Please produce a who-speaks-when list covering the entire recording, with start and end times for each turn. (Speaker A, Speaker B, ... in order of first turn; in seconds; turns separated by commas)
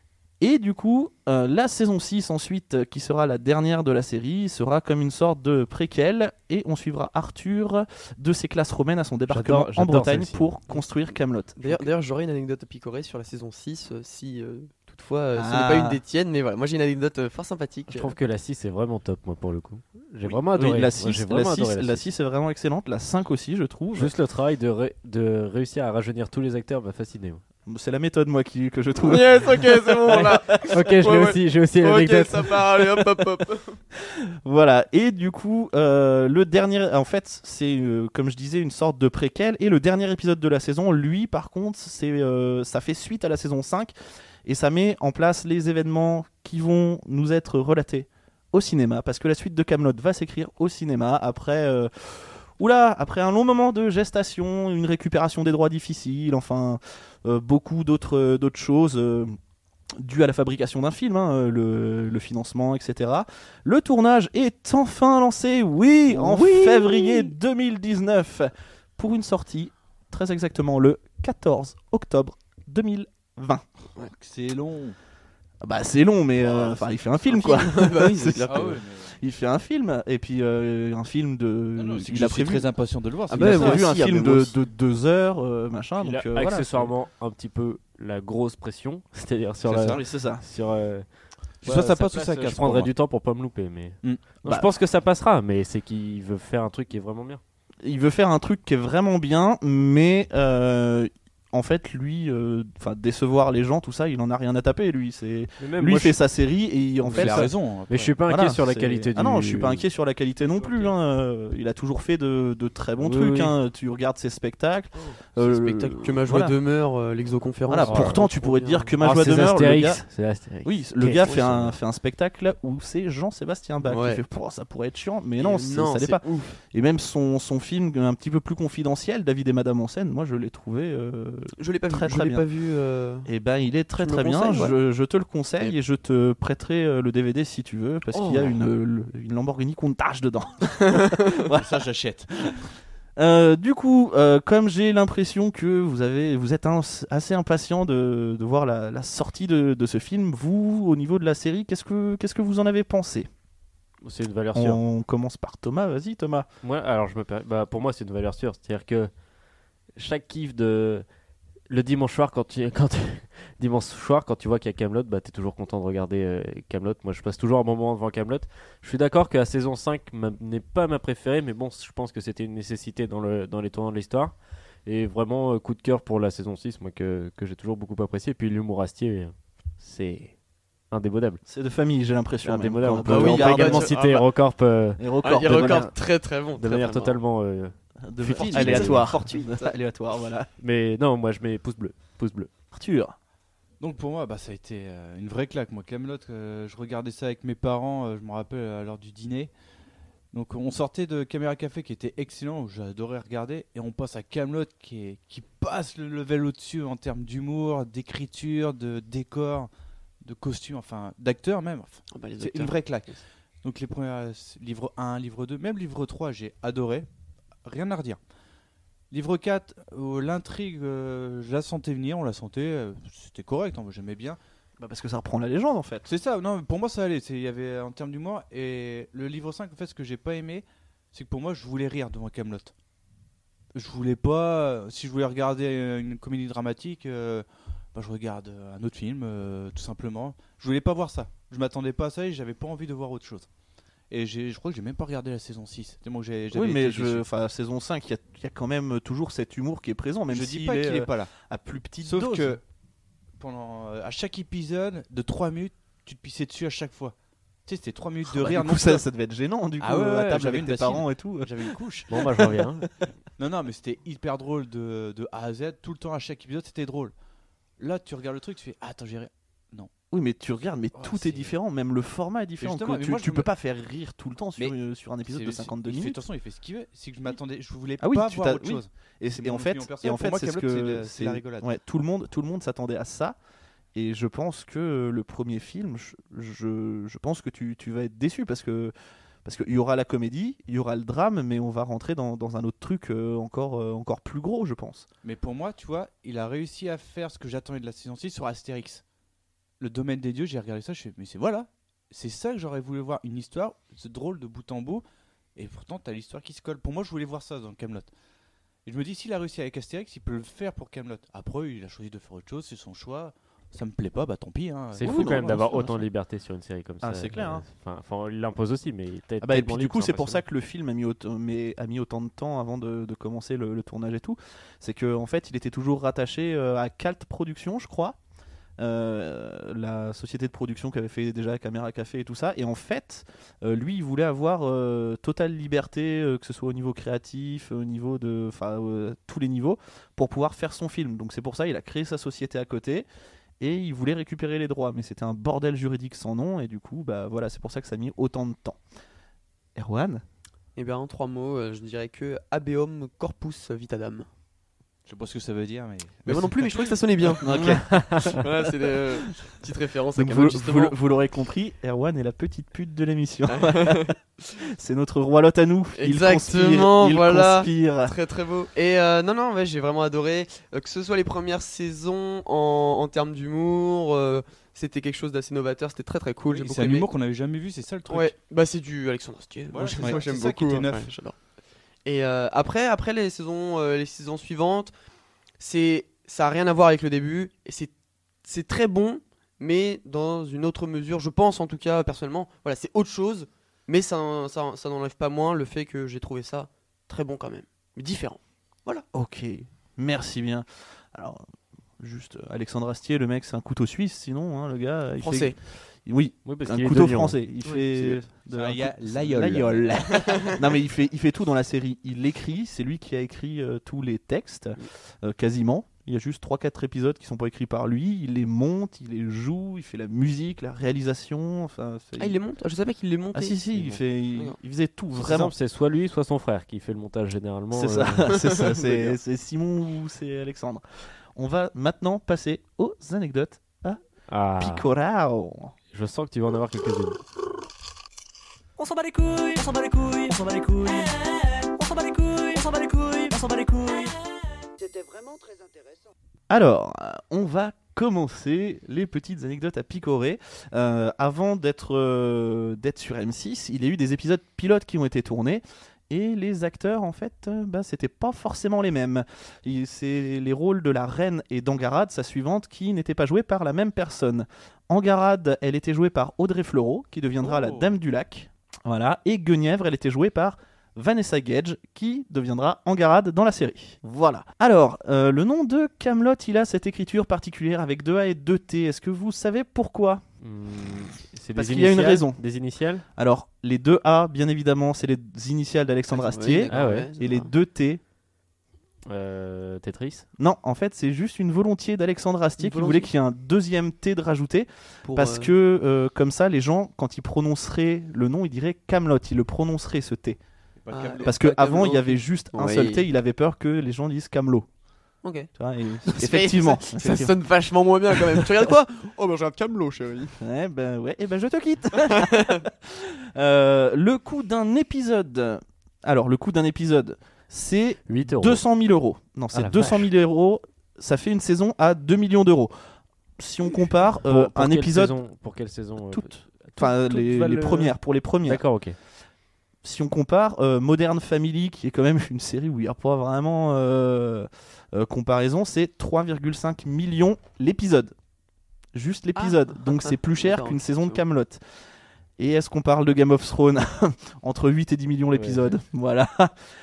Speaker A: 0.4-11.9, Speaker B: 9.3-10.6, Speaker C: 11.6-18.1, Speaker A: 15.3-16.0, Speaker B: 17.9-22.0, Speaker A: 20.3-24.1, Speaker B: 23.9-27.4, Speaker A: 27.6-30.9, Speaker C: 29.0-33.8, Speaker B: 30.1-32.6, Speaker A: 34.0-43.9, Speaker A: 44.4-59.3, Speaker A: 60.0-73.6, Speaker D: 74.0-75.0, Speaker A: 75.6-82.7, Speaker C: 77.3-78.8, Speaker D: 78.5-79.2, Speaker D: 81.8-83.9, Speaker C: 83.3-84.5, Speaker A: 83.3-86.9, Speaker B: 86.0-91.1, Speaker D: 89.7-90.0, Speaker A: 89.8-90.4, Speaker B: 91.6-97.4, Speaker D: 91.6-92.9, Speaker A: 94.4-94.7, Speaker A: 97.8-107.5, Speaker B: 105.6-106.2, Speaker D: 107.1-108.2, Speaker B: 107.1-109.8, Speaker A: 108.3-116.5, Speaker D: 110.5-110.9, Speaker B: 113.0-113.5, Speaker C: 115.3-118.9, Speaker A: 117.7-120.0, Speaker B: 117.8-118.2, Speaker B: 119.0-121.8, Speaker A: 120.6-132.4, Speaker C: 123.8-124.2, Speaker C: 125.4-126.6, Speaker C: 131.6-133.3, Speaker A: 133.2-141.7, Speaker C: 134.0-134.8, Speaker C: 138.1-138.6, Speaker C: 140.8-141.4, Speaker D: 141.6-142.6, Speaker A: 143.2-153.3, Speaker B: 154.0-154.8, Speaker A: 154.5-156.5, Speaker B: 156.6-159.1, Speaker B: 159.9-161.0, Speaker B: 161.7-174.3, Speaker B: 174.8-180.3, Speaker B: 180.9-181.4, Speaker A: 181.5-184.3, Speaker B: 182.4-185.8, Speaker C: 183.1-184.1, Speaker A: 185.0-185.9, Speaker C: 185.2-187.2, Speaker B: 186.6-189.1, Speaker A: 188.1-190.5, Speaker D: 188.3-189.1, Speaker C: 188.5-189.7, Speaker B: 190.6-192.5, Speaker A: 192.7-193.1, Speaker D: 193.8-199.5, Speaker D: 200.3-209.7, Speaker D: 210.2-217.1, Speaker C: 212.1-213.2, Speaker D: 217.6-218.2, Speaker D: 219.1-224.4, Speaker A: 224.8-226.1, Speaker D: 226.1-232.7, Speaker D: 233.7-243.5, Speaker D: 244.1-247.2, Speaker A: 246.5-252.6, Speaker D: 250.3-251.3, Speaker D: 252.0-252.6, Speaker D: 253.4-257.1, Speaker D: 257.6-259.0, Speaker A: 258.2-262.5, Speaker D: 259.8-262.1, Speaker B: 262.1-262.9, Speaker D: 263.4-267.1, Speaker D: 267.8-269.9, Speaker A: 270.1-276.2, Speaker D: 270.9-271.5, Speaker D: 272.6-273.5, Speaker D: 274.6-281.7, Speaker A: 278.0-283.4, Speaker A: 283.9-288.9, Speaker A: 289.4-295.1, Speaker D: 295.2-299.0, Speaker D: 299.8-305.0, Speaker D: 305.6-308.1, Speaker D: 308.9-315.7, Speaker B: 314.9-320.4, Speaker A: 315.0-316.1, Speaker A: 317.0-317.6, Speaker A: 319.4-328.2, Speaker A: 328.8-343.1, Speaker A: 343.6-348.8, Speaker A: 349.8-350.2, Speaker C: 350.8-354.3, Speaker D: 355.1-357.4, Speaker C: 356.2-360.9, Speaker A: 357.4-358.4, Speaker B: 357.9-358.2, Speaker A: 360.1-368.1, Speaker C: 363.5-364.2, Speaker C: 366.0-377.1, Speaker D: 376.5-378.3, Speaker C: 378.1-381.3, Speaker D: 379.7-381.1, Speaker C: 382.0-384.9, Speaker C: 385.6-387.9, Speaker C: 388.4-399.0, Speaker A: 399.1-401.4, Speaker A: 402.0-422.4, Speaker C: 405.2-405.6, Speaker B: 406.4-407.4, Speaker D: 407.9-410.1, Speaker C: 410.2-410.5, Speaker C: 422.2-423.6, Speaker A: 423.3-425.5, Speaker B: 425.1-428.4, Speaker A: 427.7-430.8, Speaker C: 428.3-429.1, Speaker A: 431.4-434.0, Speaker B: 434.3-434.9, Speaker A: 434.6-435.7, Speaker B: 435.9-437.2, Speaker E: 438.8-444.3, Speaker A: 446.5-480.2, Speaker D: 467.4-467.9, Speaker B: 480.4-483.0, Speaker A: 481.5-482.4, Speaker A: 483.2-488.0, Speaker C: 486.1-487.5, Speaker B: 486.7-487.1, Speaker B: 489.1-490.2, Speaker A: 490.4-500.4, Speaker C: 492.6-493.1, Speaker C: 495.0-495.5, Speaker D: 500.8-502.2, Speaker C: 500.9-501.3, Speaker A: 501.2-504.7, Speaker C: 502.5-503.1, Speaker C: 505.2-505.5, Speaker A: 505.6-507.3, Speaker C: 506.1-510.3, Speaker A: 508.1-508.7, Speaker A: 510.4-522.7, Speaker C: 512.1-512.6, Speaker B: 518.1-518.6, Speaker B: 519.5-520.1, Speaker A: 523.4-525.2, Speaker B: 524.2-529.0, Speaker A: 526.1-528.6, Speaker A: 529.8-538.1, Speaker A: 538.9-541.6, Speaker C: 539.4-541.2, Speaker A: 542.4-546.5, Speaker B: 545.3-545.7